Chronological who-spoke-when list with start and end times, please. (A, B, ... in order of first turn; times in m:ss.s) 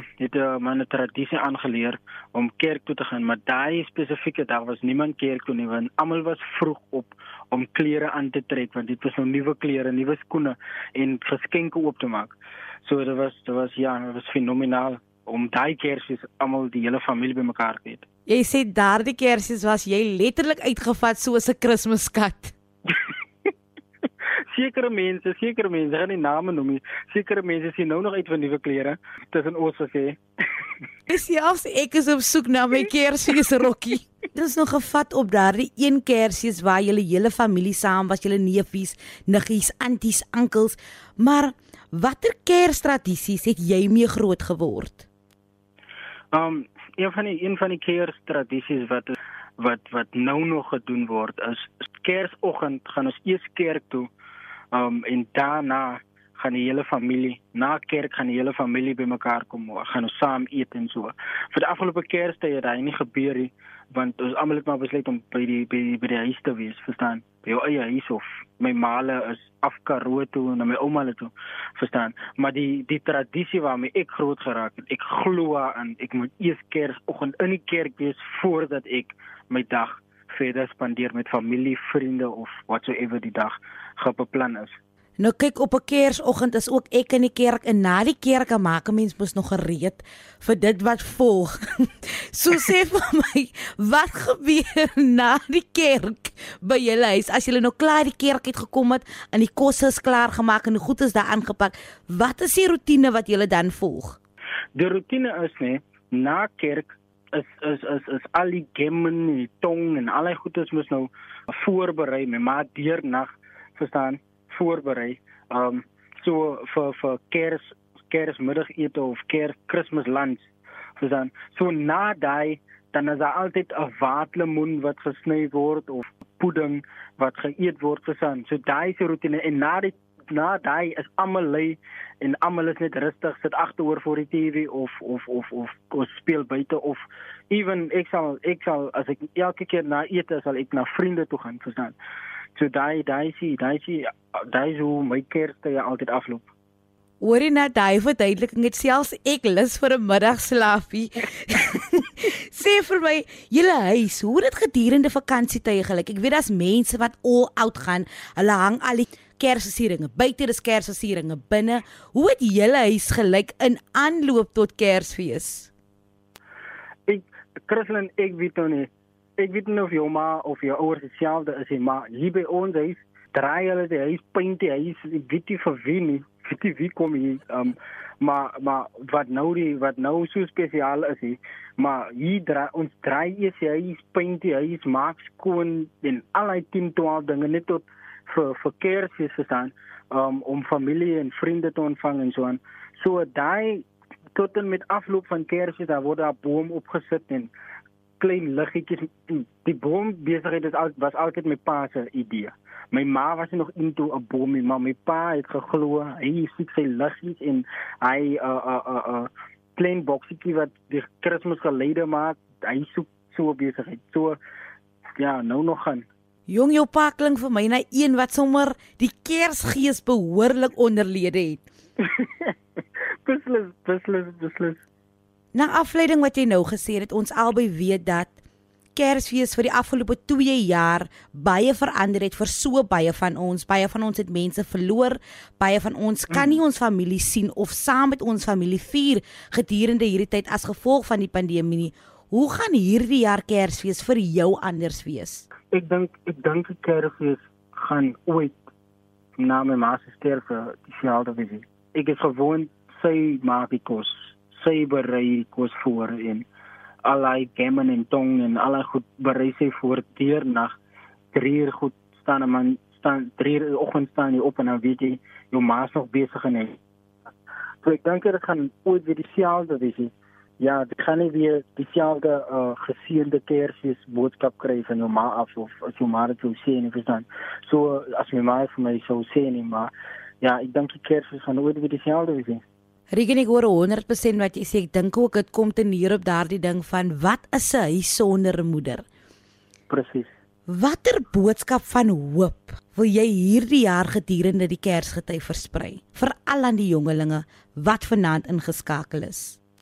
0:00.2-0:18.0 A
0:18.3-0:22.5 B
0:24.5-0:30.2 A
0:31.1-0:45.0 B
0:46.3-0:54.1 A
0:54.7-1:24.7 A
1:25.2-1:44.2 B
1:44.7-2:22.0 A
2:22.6-2:26.4 A
2:27.2-2:45.7 B
2:47.1-3:17.5 A
3:18.2-3:34.4 A
3:35.2-3:36.0 A
3:36.5-3:41.6 B
3:42.0-3:42.5 A
3:43.2-3:44.8 A
3:45.5-3:48.3 B
3:48.9-4:05.4 B
3:56.3-3:56.6 A
4:05.7-4:08.6 A
4:09.4-4:16.4 A
4:17.0-4:20.7 A
4:21.3-4:26.8 A
4:27.8-4:39.9 A
4:40.4-4:42.6 A
4:43.1-4:49.0 B
4:49.9-4:50.3 A
4:50.7-4:59.6 B